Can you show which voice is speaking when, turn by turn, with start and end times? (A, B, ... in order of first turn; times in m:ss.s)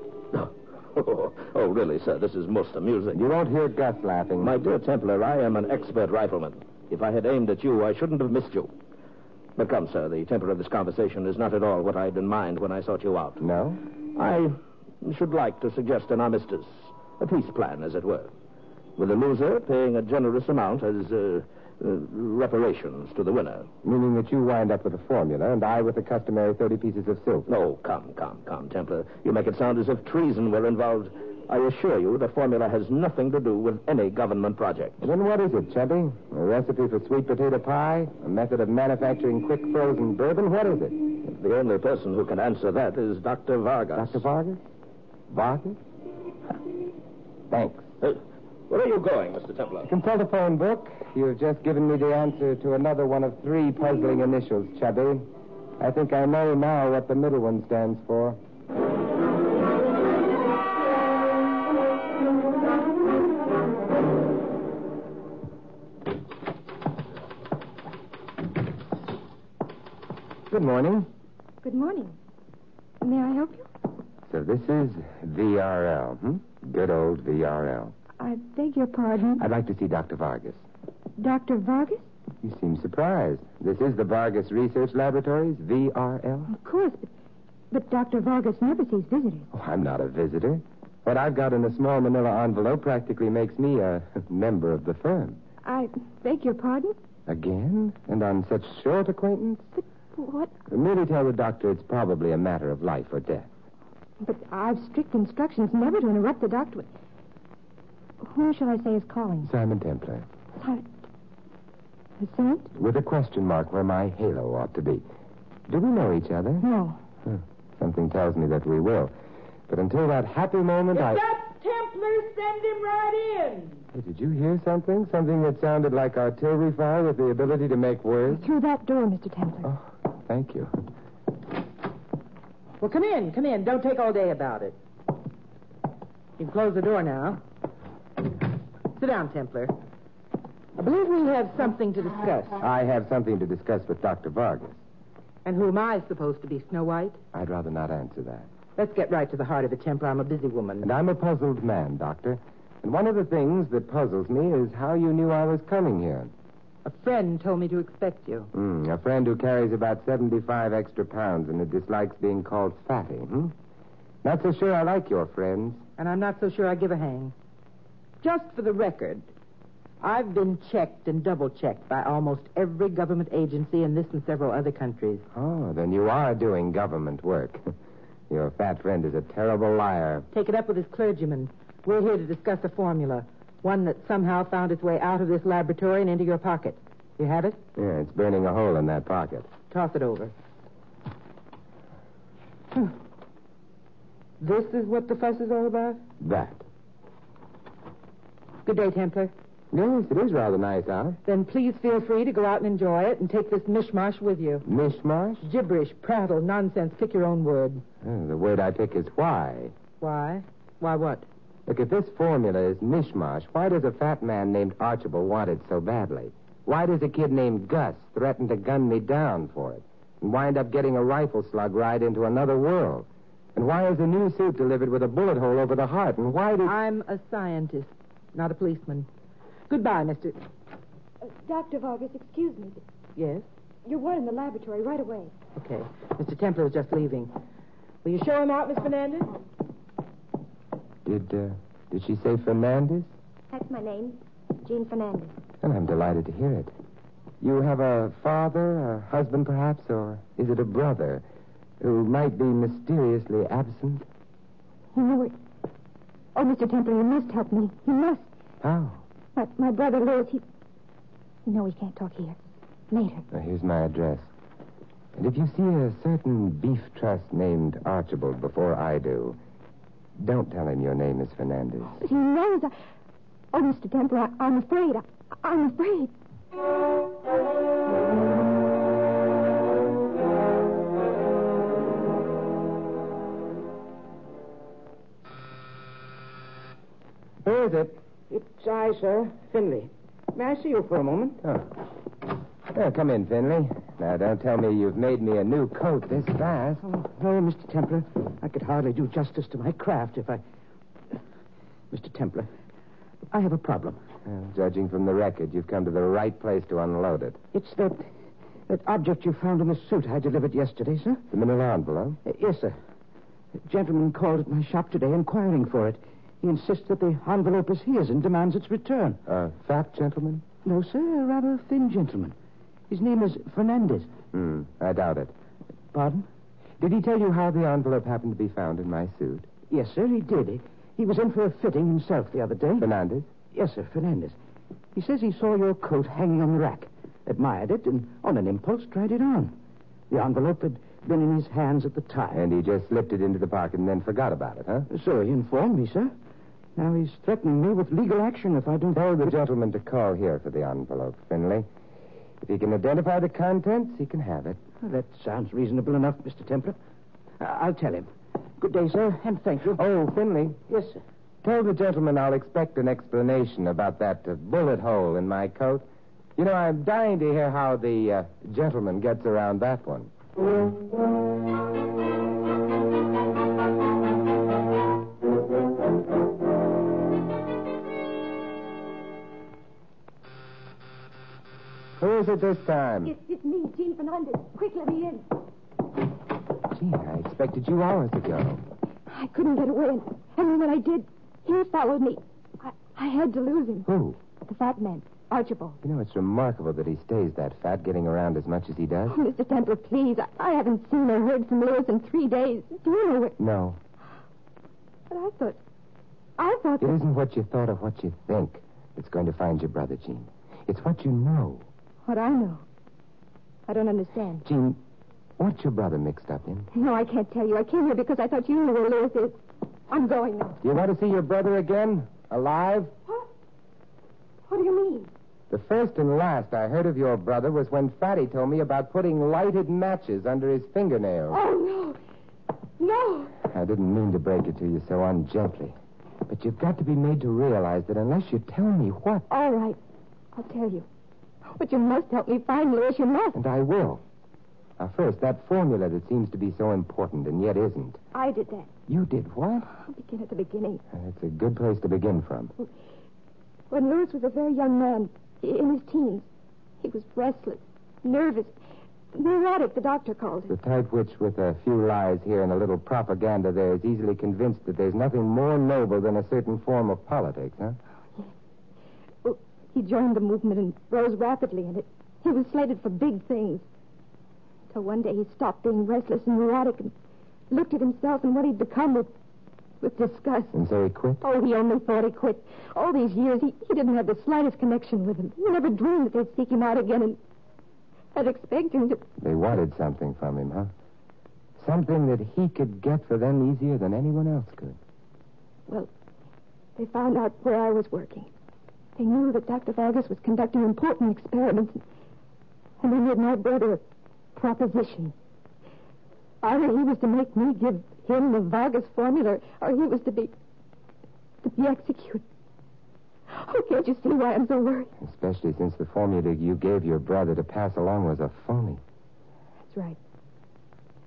0:00.3-0:03.2 A
0:03.1-0:04.6 B
0:04.4-0:08.7 A
0:09.6-0:13.4 A
0:13.4-0:13.8 B
0:14.2-0:18.3 A
0:19.0-0:23.7 A
0:23.8-0:27.5 B
0:27.5-0:35.0 A
0:35.0-0:41.0 B
0:41.2-0:44.2 A
0:44.0-0:44.6 B
0:45.3-0:45.8 B
0:47.5-0:47.9 B
0:48.0-0:49.9 A
0:49.8-0:55.3 B
0:55.8-0:58.4 B
1:10.5-1:11.1 B
1:11.6-1:12.2 C
1:13.0-1:13.7 C
1:14.3-1:17.9 B
1:18.2-1:19.4 C
1:19.4-1:20.6 B
1:21.2-1:22.1 C
1:22.4-1:26.5 B
1:26.5-1:27.1 C
1:27.7-1:29.5 C
1:29.5-1:35.4 B
1:35.6-1:37.0 C
1:37.3-1:39.7 B
1:40.2-1:40.5 C
1:40.7-1:43.5 B
1:44.2-1:46.9 C
1:48.2-1:49.5 C
1:49.4-1:50.3 B
1:50.6-1:50.8 C
1:52.2-1:52.7 C
1:52.7-1:55.0 B
1:55.7-1:56.6 B
1:56.6-1:57.0 C
1:57.2-1:59.1 B
1:59.7-2:01.2 B
2:00.9-2:03.8 D
2:03.9-2:08.5 B
2:08.3-2:09.7 C
2:09.6-2:10.7 B
2:12.8-2:14.8 D
2:16.4-2:17.4 D
2:19.0-2:19.8 D
2:20.8-2:22.6 D
2:22.6-2:24.8 B
2:25.4-2:27.2 D
2:27.3-2:28.5 B
2:28.8-2:30.9 D
2:30.8-2:36.3 B
2:36.8-2:38.5 D
2:38.5-2:43.5 B
2:44.2-2:45.8 B
2:46.0-2:47.3 D
2:48.2-2:49.3 D
2:50.0-2:55.2 D
2:55.3-2:57.6 B
2:58.3-3:00.3 B
3:00.3-3:07.6 D
3:07.8-3:09.5 B
3:09.7-3:10.3 D
3:14.4-3:16.0 D
3:16.2-3:16.6 B
3:18.6-3:19.3 D
3:19.7-3:21.2 B
3:21.3-3:24.6 D
3:24.6-3:25.5 B
3:25.4-3:27.8 D
3:28.0-3:29.7 B
3:30.0-3:31.3 D
3:31.7-3:46.8 B
3:46.6-3:49.1 D
3:49.7-3:50.4 D
3:51.2-3:52.8 C
3:53.2-3:53.4 D
3:53.8-3:55.3 C
3:55.6-3:57.3 D
3:58.0-3:59.4 D
4:01.0-4:03.1 B
4:03.5-4:05.3 C
4:05.6-4:06.7 B
4:07.4-4:11.2 B
4:11.8-4:14.1 B
4:14.9-4:15.4 C
4:16.4-4:18.3 C
4:18.6-4:19.0 B
4:19.4-4:20.4 C
4:21.5-4:22.4 C
4:22.9-4:23.3 C
4:23.3-4:24.3 B
4:25.2-4:29.4 B
4:30.2-4:32.0 B
4:32.0-4:32.8 C
4:33.5-4:36.1 C
4:47.4-4:47.9 B
4:47.7-4:51.4 E
4:51.4-4:51.7 B
4:52.7-4:56.8 B
4:56.8-5:00.4 E
5:01.9-5:02.5 E
5:03.3-5:04.0 E
5:04.2-5:07.4 B
5:07.5-5:08.1 E
5:08.7-5:11.2 E
5:11.3-5:12.2 B
5:12.2-5:12.8 E
5:13.6-5:19.2 E
5:19.3-5:20.4 B
5:20.6-5:22.4 E
5:22.9-5:24.1 E
5:24.3-5:25.3 B
5:25.9-5:26.3 E
5:26.8-5:29.5 B
5:29.7-5:32.9 E
5:32.8-5:33.3 B
5:33.5-5:34.4 E
5:34.9-5:39.6 E
5:40.1-5:42.4 E
5:42.3-5:44.9 B
5:44.9-5:46.1 E
5:46.8-5:49.3 E
5:48.9-5:51.7 B
5:52.4-5:54.6 B
5:54.8-5:56.8 E
5:57.4-5:59.8 E
5:59.7-6:00.6 B
6:00.7-6:01.0 E
6:01.4-6:10.1 B
6:22.0-6:23.1 B
6:23.0-6:25.3 C
6:26.7-6:28.6 B
6:29.1-6:33.9 C
6:33.9-6:34.2 B
6:34.4-6:35.8 C
6:35.8-6:39.2 B
6:39.1-6:43.4 C
6:43.4-6:43.8 B
6:45.1-6:45.6 C
6:46.4-6:47.0 C
6:46.8-6:51.7 B
6:52.1-6:52.6 C
6:53.7-6:54.4 C
6:54.4-6:54.8 B
6:55.4-6:56.7 B
6:56.7-7:00.6 C
7:00.6-7:02.9 B
7:04.5-7:05.1 C
7:05.5-7:11.4 B
7:11.3-7:12.0 C
7:12.8-7:13.3 C
7:13.4-7:15.8 B
7:16.3-7:19.3 B
7:19.3-7:19.8 C
7:20.4-7:20.9 C
7:21.5-7:23.4 C
7:23.4-7:24.0 B
7:24.8-7:28.0 B
7:28.1-7:28.7 C
7:28.9-7:29.7 B
7:29.7-7:30.8 C
7:30.9-7:32.5 B
7:33.7-7:36.3 C
7:36.8-7:38.6 C
7:39.1-7:40.6 C
7:40.5-7:47.8 B
7:49.2-7:53.6 C
7:54.7-7:56.9 C
7:57.5-7:59.1 C
7:59.8-8:00.6 C
8:00.5-8:01.2 B
8:01.2-8:07.2 C
8:08.2-8:09.0 C
8:09.2-8:10.7 B
8:11.6-8:14.8 B
8:16.8-8:18.3 C
8:19.0-8:21.8 C
8:22.8-8:23.8 C
8:24.4-8:25.1 C
8:26.4-8:30.3 C
8:31.4-8:32.2 C
8:33.3-8:34.9 C
8:35.0-8:38.8 B
8:39.7-8:40.0 C